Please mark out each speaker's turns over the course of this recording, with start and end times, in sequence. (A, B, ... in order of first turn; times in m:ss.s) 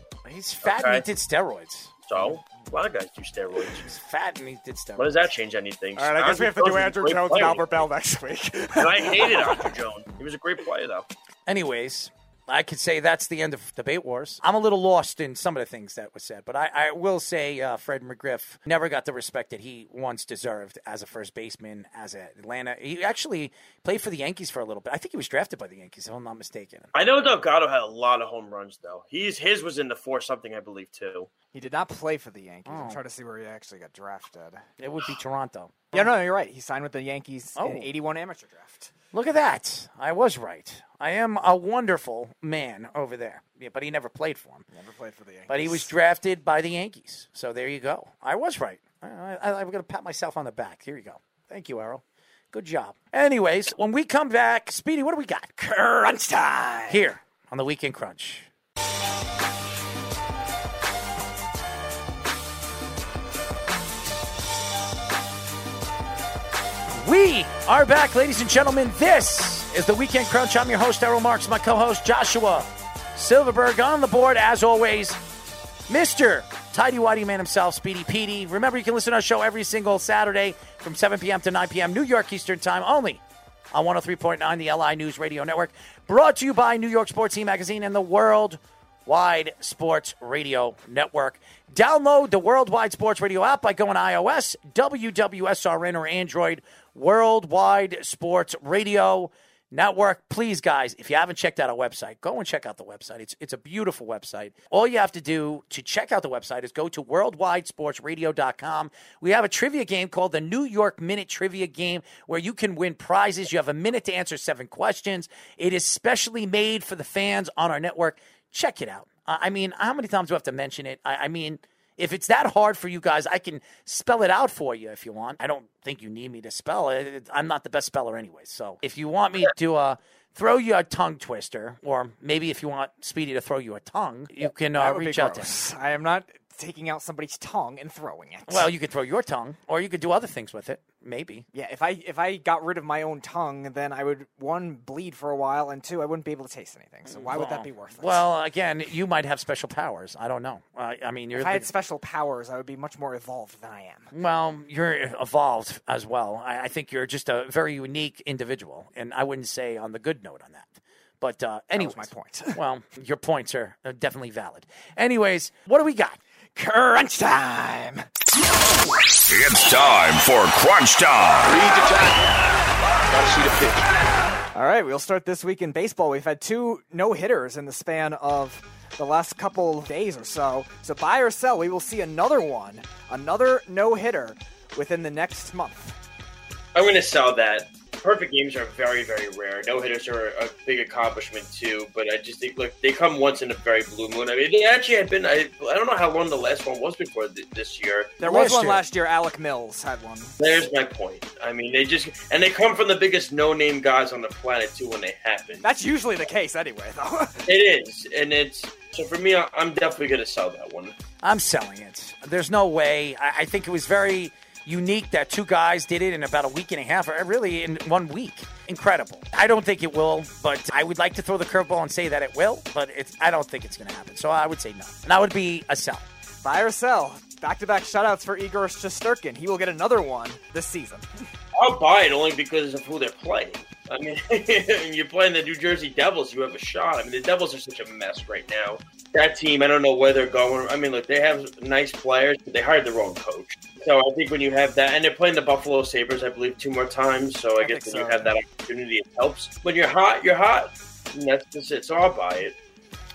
0:00.2-0:02.4 A
0:00.6-0:01.0 B
0:02.1-0:03.9 B
0:03.7-0:05.3 A
0:05.0-0:07.8 B
0:06.0-0:09.7 C
0:08.8-0:11.1 B
0:11.4-0:26.9 A
0:26.9-0:31.3 B
0:31.5-0:34.6 C
0:32.6-0:33.0 A
0:34.8-0:36.1 A
0:35.9-0:38.9 C
0:37.6-0:37.9 A
0:39.1-0:44.6 A
0:44.7-0:45.9 C
0:45.5-0:55.6 A
0:55.6-0:57.0 C
0:56.9-0:58.5 A
1:06.9-1:15.2 A
1:15.9-1:23.2 A
1:23.7-2:15.6 A
2:14.7-2:18.7 C
2:18.5-2:21.4 A
2:21.5-2:28.2 C
2:27.1-2:31.7 A
2:31.3-2:34.1 C
2:34.1-2:46.2 A
2:41.8-2:42.6 C
2:46.6-2:48.0 C
2:49.3-2:51.6 D
2:51.4-2:52.5 E
2:53.1-2:54.0 E
2:54.5-3:06.0 C
3:06.7-3:18.1 B
3:18.2-3:20.4 C
3:18.2-3:18.8 A
3:20.4-3:25.6 B
3:25.6-3:27.4 C
3:27.4-3:30.9 B
3:31.2-3:46.0 A
3:46.4-3:51.2 C
3:51.6-4:12.6 B
4:07.6-4:08.3 C